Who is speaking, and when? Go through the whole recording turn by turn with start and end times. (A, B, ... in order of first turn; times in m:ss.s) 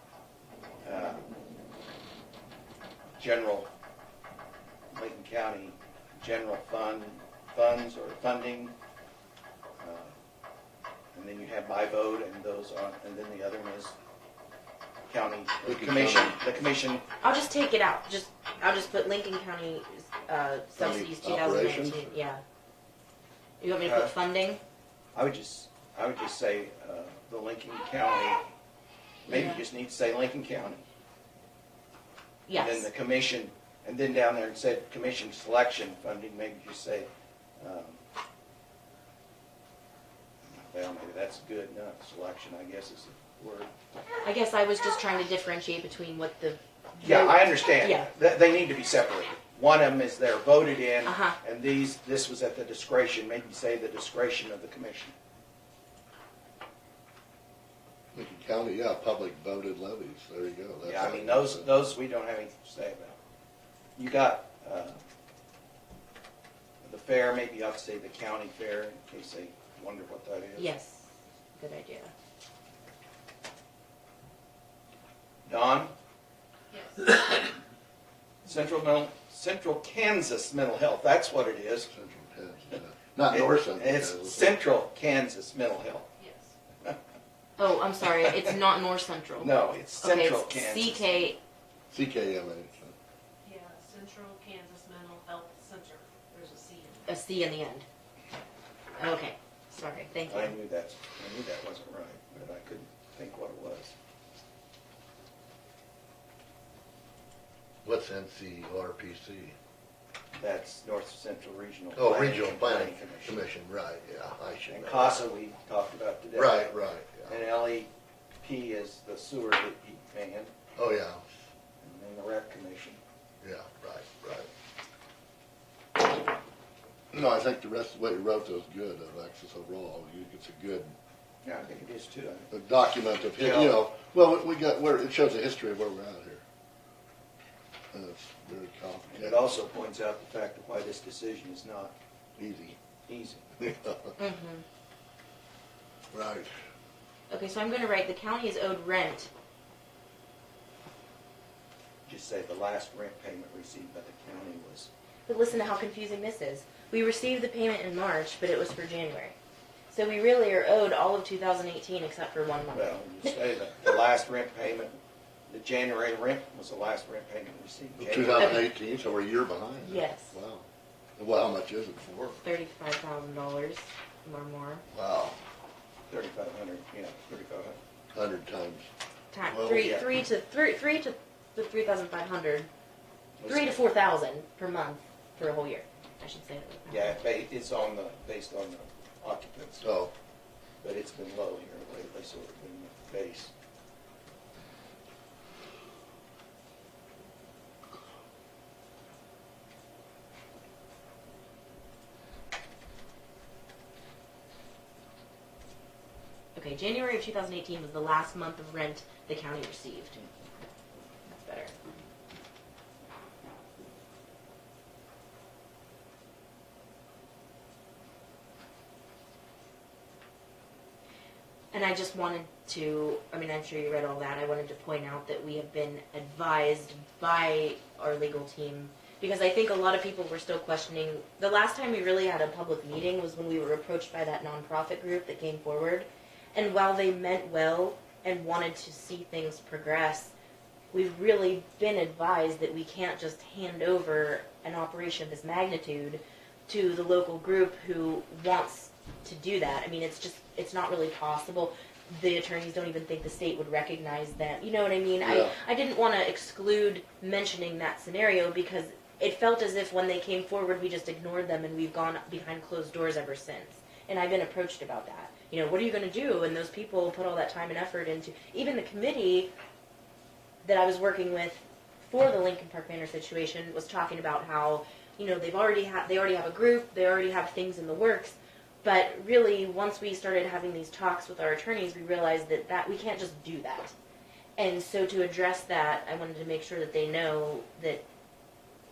0:00.8-0:01.2 A
0:03.2-0:03.7 A
0:04.9-0:08.7 A
0:09.8-0:10.1 A
0:11.1-0:14.0 A
0:15.1-0:17.0 A
0:15.6-0:16.4 B
0:17.2-0:22.4 C
0:20.8-0:22.1 B
0:23.6-0:24.6 C
0:23.8-0:24.1 A
0:25.1-0:28.4 A
0:29.2-0:30.8 A
0:29.3-0:29.6 C
0:32.5-0:32.9 C
0:32.5-0:37.1 A
0:37.6-0:38.0 A
0:40.5-0:43.7 A
0:44.2-0:48.1 C
0:47.0-0:55.1 A
0:51.0-0:51.4 C
0:58.1-1:01.7 B
1:00.8-1:03.2 A
1:04.0-1:05.0 A
1:06.8-1:10.7 A
1:10.6-1:12.1 C
1:15.4-1:15.9 A
1:16.7-1:17.5 D
1:18.4-1:21.9 A
1:21.9-1:24.6 B
1:23.3-1:26.1 A
1:26.2-1:26.5 D
1:27.6-1:31.4 C
1:28.0-1:28.5 A
1:29.4-1:31.3 A
1:31.9-1:32.9 B
1:33.4-1:37.1 D
1:37.1-1:37.8 C
1:39.0-1:40.6 C
1:40.3-1:43.9 A
1:47.8-1:49.5 B
1:50.4-1:53.5 A
1:51.9-1:55.2 B
1:54.7-2:00.5 A
1:56.3-1:57.4 B
2:00.8-2:01.3 B
2:01.8-2:03.0 A
2:03.4-2:04.5 B
2:07.1-2:10.9 B
2:11.4-2:12.5 A
2:12.5-2:16.4 B
2:13.3-2:13.8 A
2:17.9-2:19.4 B
2:19.1-2:22.0 A
2:22.4-2:22.8 B
2:23.1-2:23.6 A
2:23.6-2:24.2 B
2:24.2-2:24.6 C
2:26.1-2:26.5 B
2:27.3-2:29.3 C
2:32.0-2:34.9 A
2:35.3-2:39.3 C
2:39.9-2:43.3 C
2:42.7-2:48.6 A
2:48.0-2:52.4 B
2:49.8-2:50.4 C
2:52.4-2:54.8 C
2:54.9-2:55.4 B
2:56.1-2:57.8 A
2:58.1-2:58.9 B
2:59.3-3:02.7 C
2:59.4-2:59.9 B
2:59.7-3:00.0 A
3:03.4-3:03.8 A
3:03.4-3:07.2 C
3:06.9-3:09.8 A
3:09.8-3:10.1 B
3:10.8-3:13.5 A
3:26.5-3:30.3 C
3:31.2-3:31.7 C
3:41.7-4:00.3 C
4:00.9-4:29.5 C
4:15.2-4:15.5 B
4:30.6-4:43.9 C
4:44.6-4:48.0 C